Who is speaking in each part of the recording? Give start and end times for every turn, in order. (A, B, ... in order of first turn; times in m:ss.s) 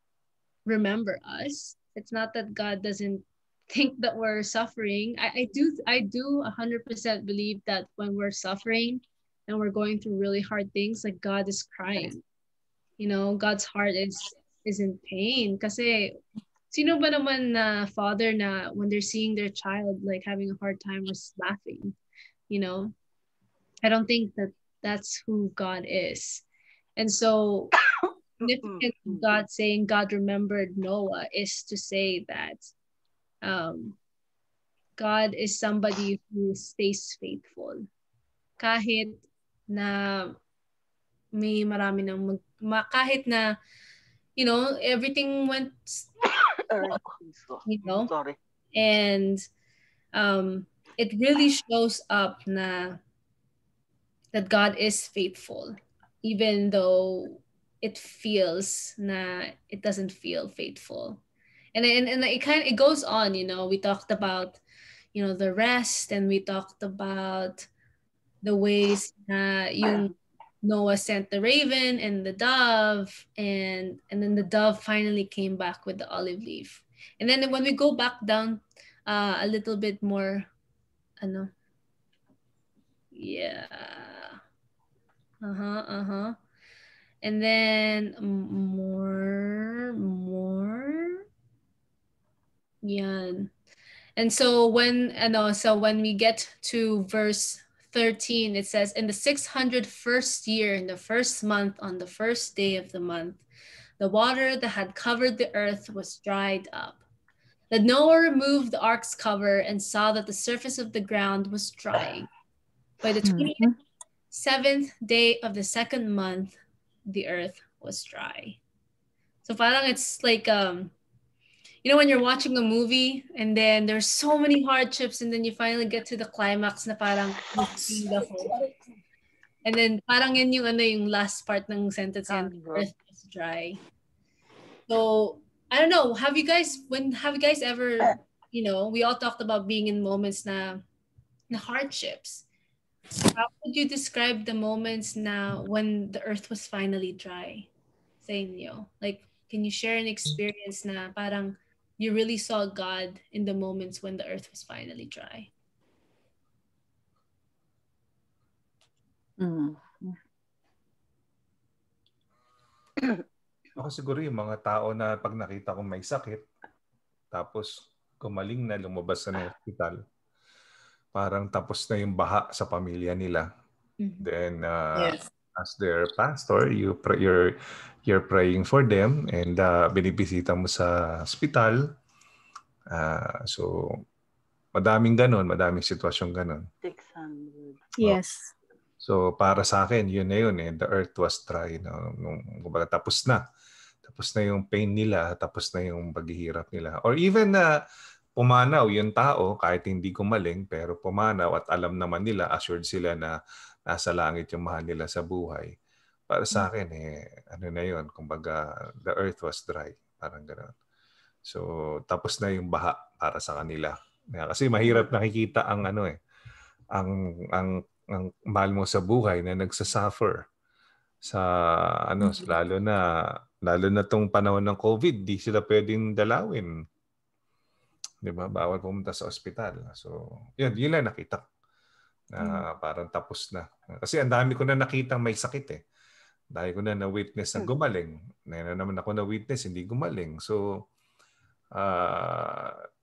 0:00.7-0:12.2 A
0:13.0-0:16.1 A
0:16.7-0:22.0 A
0:22.5-0:22.9 A
0:23.8-0:26.4 A
0:27.0-0:27.7 A
0:28.4-0:32.7 A
0:28.6-0:29.4 B
0:33.4-0:34.0 A
0:35.0-0:37.9 A
0:38.6-0:40.4 A
0:41.3-0:43.5 A
0:44.4-0:46.1 A
0:46.7-0:48.4 B
0:47.7-0:48.1 A
0:48.8-0:49.4 A
0:50.1-0:53.0 A
0:54.3-1:01.2 A
1:01.8-1:04.6 A
1:05.1-1:07.7 A
1:08.4-1:10.1 A
1:10.6-1:20.5 A
1:21.2-1:21.5 A
1:23.1-1:24.4 A
1:25.4-1:26.4 A
1:27.2-1:31.2 A
1:32.8-1:33.5 A
1:34.2-1:43.4 A
1:44.0-1:47.0 A
1:47.7-1:52.3 A
1:53.0-1:53.7 A
1:53.2-1:53.7 C
1:54.3-1:58.6 A
1:59.4-2:00.9 A
2:01.8-2:08.5 A
2:07.6-2:08.1 C
2:09.6-2:13.8 A
2:12.3-2:12.9 B
2:14.9-2:20.8 A
2:21.5-2:22.4 A
2:23.3-2:27.7 A
2:28.2-2:35.5 A
2:39.4-2:40.2 C
2:43.8-2:46.4 D
2:47.3-2:47.7 D
2:48.2-2:50.0 D
2:51.2-2:53.5 D
2:54.0-2:54.3 A
2:54.2-3:01.8 D
2:55.0-2:55.3 C
3:02.9-3:03.8 D
3:04.8-3:06.6 D
3:06.8-3:07.8 B
3:08.0-3:08.5 C
3:09.0-3:13.4 D
3:14.1-3:17.7 D
3:18.4-3:23.4 D
3:23.9-3:25.7 D
3:26.3-3:30.7 D
3:31.5-3:36.2 D
3:37.0-3:40.4 D
3:41.2-3:43.0 D
3:43.7-3:46.7 D
3:48.2-3:51.4 D
3:52.3-3:55.8 D
3:56.6-4:00.6 D
4:01.8-4:02.7 D